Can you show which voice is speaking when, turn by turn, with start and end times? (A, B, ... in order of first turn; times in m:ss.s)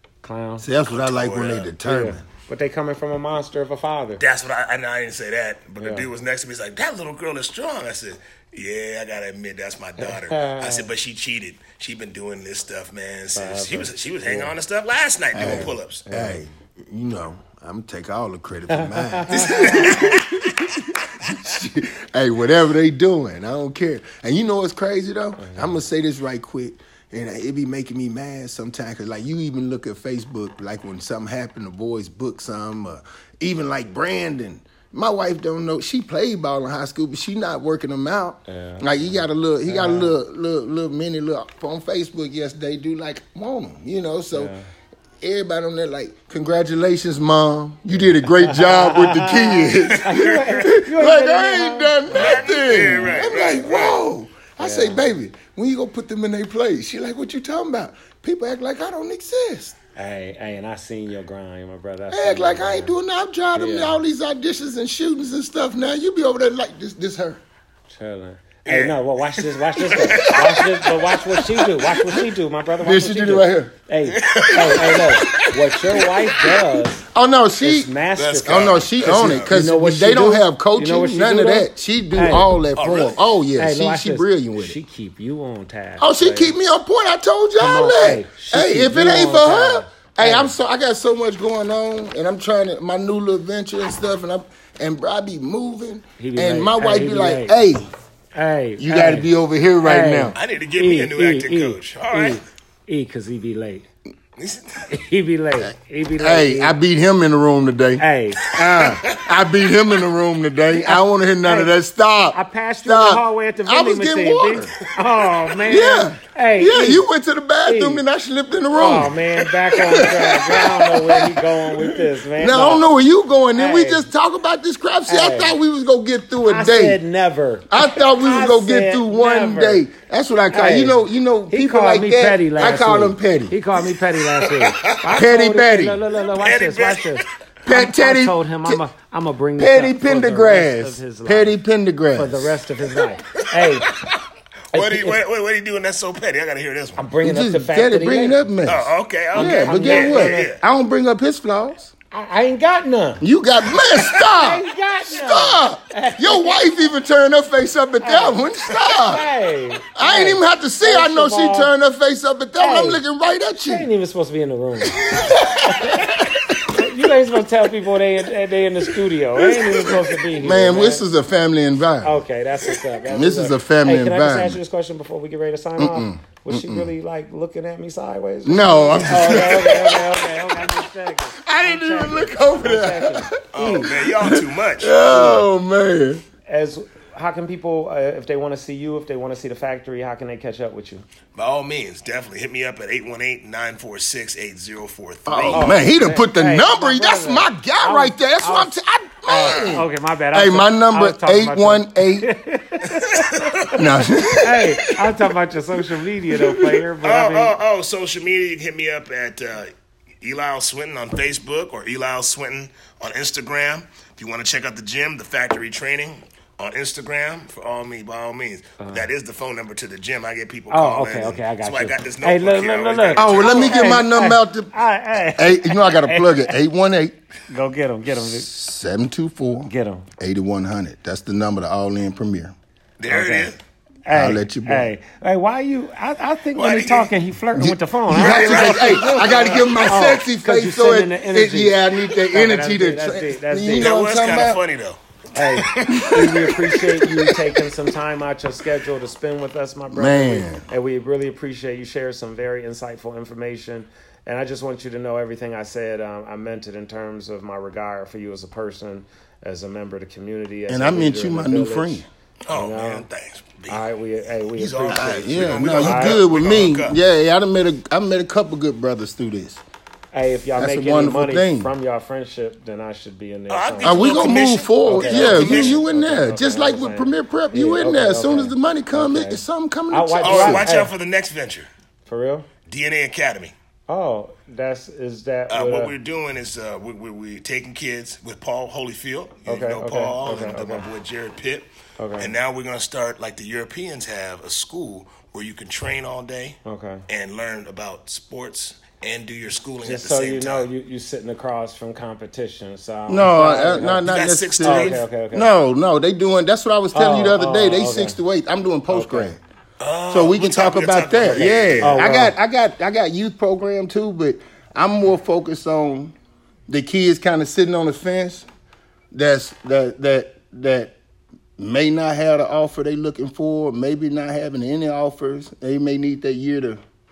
0:00.2-0:00.7 A
0:00.6-0:02.2 B
0:00.8-0:01.7 C
0:01.8-0:04.2 A
0:04.2-0:16.1 C
0:05.8-0:06.1 A
0:10.0-0:10.9 A
0:13.4-0:14.5 A
0:15.3-0:44.5 B
0:16.0-0:16.4 A
0:18.7-0:20.0 A
0:19.3-0:20.5 C
0:25.4-0:25.7 A
0:38.5-0:40.1 A
0:44.3-0:44.6 A
0:45.2-0:59.8 B
0:47.9-0:53.5 A
0:49.9-0:50.6 C
0:52.1-0:54.0 C
0:54.6-0:55.1 A
1:00.0-1:03.0 A
1:02.1-1:07.4 B
1:03.5-1:04.0 A
1:07.9-1:17.0 A
1:08.6-1:11.4 C
1:12.8-1:13.7 B
1:14.1-1:16.0 C
1:14.6-1:15.0 B
1:17.1-1:17.9 B
1:17.6-1:22.5 A
1:18.2-1:19.5 C
1:18.4-1:24.8 B
1:22.7-1:23.2 C
1:23.6-1:26.5 A
1:26.0-1:37.9 B
1:27.6-1:30.5 A
1:36.2-1:37.6 A
1:38.3-1:39.3 A
1:38.8-1:40.4 B
1:39.8-1:43.9 A
1:40.4-1:42.4 C
1:44.4-1:44.9 C
1:44.9-1:46.8 A
1:45.6-1:54.8 B
1:48.0-1:48.4 A
1:48.5-1:49.3 C
1:50.8-1:51.7 A
1:52.3-1:57.0 A
1:55.6-1:59.2 B
1:57.6-1:58.0 A
1:58.7-2:02.8 A
1:59.7-2:07.0 B
2:03.5-2:04.1 A
2:05.1-2:05.6 A
2:06.4-2:09.8 A
2:07.7-2:13.6 B
2:10.5-2:21.6 A
2:14.4-2:15.1 C
2:15.1-2:16.0 B
2:16.3-2:17.2 C
2:17.6-2:18.8 B
2:19.6-2:22.6 B
2:22.1-2:23.9 A
2:23.5-2:24.2 C
2:24.7-2:25.2 A
2:24.7-2:27.0 C
2:27.0-2:28.4 A
2:27.2-2:31.9 B
2:28.6-2:30.6 C
2:29.3-2:30.5 A
2:32.1-2:36.9 A
2:33.2-2:39.2 B
2:38.0-2:41.7 A
2:39.9-2:43.9 B
2:42.6-2:43.0 A
2:43.7-2:51.0 A
2:45.0-2:46.6 B
2:45.1-2:45.6 C
2:49.5-2:49.9 C
2:50.3-2:52.2 B
2:52.0-3:03.9 A
2:53.0-2:54.6 B
2:55.8-2:56.9 B
2:58.4-3:00.7 B
2:58.9-2:59.7 C
3:01.4-3:06.2 B
3:03.5-3:05.0 C
3:05.0-3:05.4 A
3:06.5-3:11.0 A
3:11.3-3:15.7 C
3:15.2-3:22.3 B
3:15.5-3:23.8 A
3:19.4-3:19.7 C
3:22.9-3:24.4 C
3:23.7-3:24.8 B
3:24.3-3:27.5 A
3:26.3-3:26.8 B
3:27.0-3:44.0 C
3:38.8-3:39.0 A
3:40.7-3:46.5 A
3:43.2-3:47.2 B
3:47.5-3:48.5 A
3:48.1-3:52.5 B
3:49.6-3:50.1 A
3:53.0-3:53.6 C
3:53.1-3:53.5 A
3:54.0-4:03.9 A
3:54.1-3:54.9 B
3:56.6-3:57.1 C
3:57.5-4:04.6 B
3:58.1-3:59.9 C
4:03.7-4:06.5 C
4:05.3-4:23.1 A
4:05.9-4:06.6 B
4:09.9-4:10.6 B
4:20.7-4:22.0 B
4:22.5-4:27.0 C
4:23.7-4:26.2 A
4:24.9-4:29.6 B
4:30.1-4:40.9 A
4:30.6-4:31.7 B
4:33.5-4:35.8 C
4:33.8-4:40.7 B
4:40.2-4:41.7 C
4:42.0-4:42.5 A
4:42.7-4:43.5 C
4:43.9-4:45.9 A
4:45.5-5:00.7 C
4:49.4-4:50.9 A
4:52.0-4:52.3 A
4:56.6-4:57.0 A
4:59.8-5:04.0 A
5:03.1-5:09.4 B
5:04.0-5:05.0 C
5:04.6-5:05.5 A
5:06.9-5:08.2 A
5:08.9-5:09.3 A
5:09.8-5:12.0 C
5:10.1-5:16.1 B
5:11.3-5:12.3 A
5:16.7-5:18.4 B
5:19.1-5:20.9 B
5:21.6-5:26.8 B